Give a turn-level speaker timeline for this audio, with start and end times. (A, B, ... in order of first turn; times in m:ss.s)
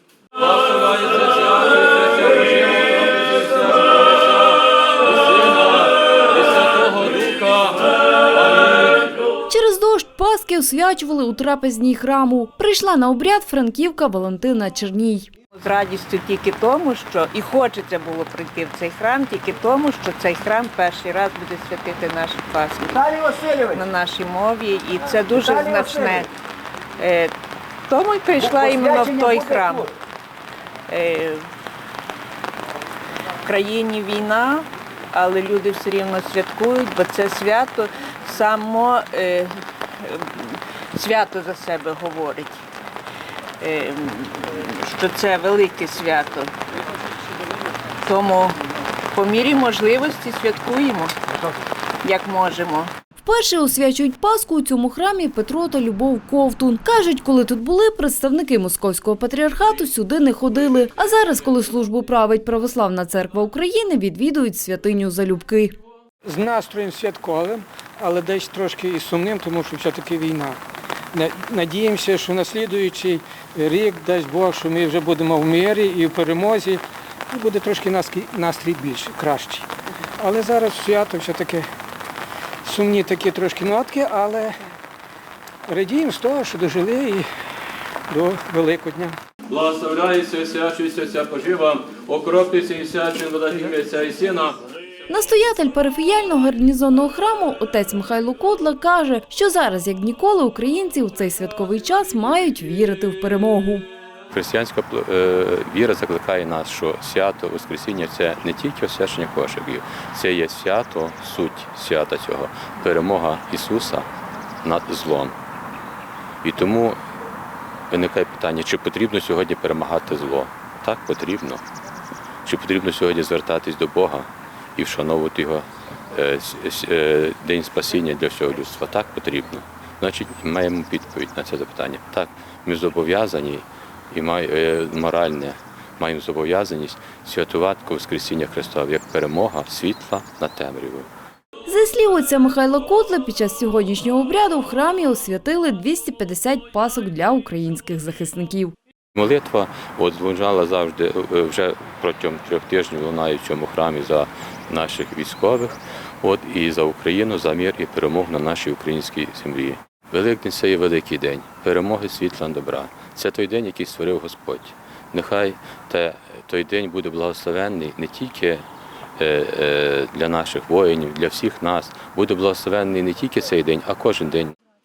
0:00.4-0:09.1 A
0:09.5-0:15.3 B
0:15.6-0:26.3 C
0:27.0-0:27.3 C
0:27.9-0:29.9 C
0:30.9-0:31.4 C
0:33.4-0:42.6 C
0:43.6-0:46.5 C
0:48.0-0:48.6 C
0:49.1-0:51.1 C
0:52.0-0:52.9 C
0:53.2-1:05.8 B
1:06.2-1:10.6 D
1:11.1-1:21.7 D
1:22.6-1:24.6 D
1:25.7-1:27.3 D
1:28.1-1:29.2 D
1:29.5-1:34.6 A
1:35.1-1:43.9 B
1:44.3-1:54.1 E
1:54.6-1:55.4 E
1:56.4-1:57.0 E
1:57.9-2:01.6 E
2:02.4-2:21.1 E
2:21.7-2:28.7 B
2:29.2-2:48.6 E
2:49.2-2:54.5 E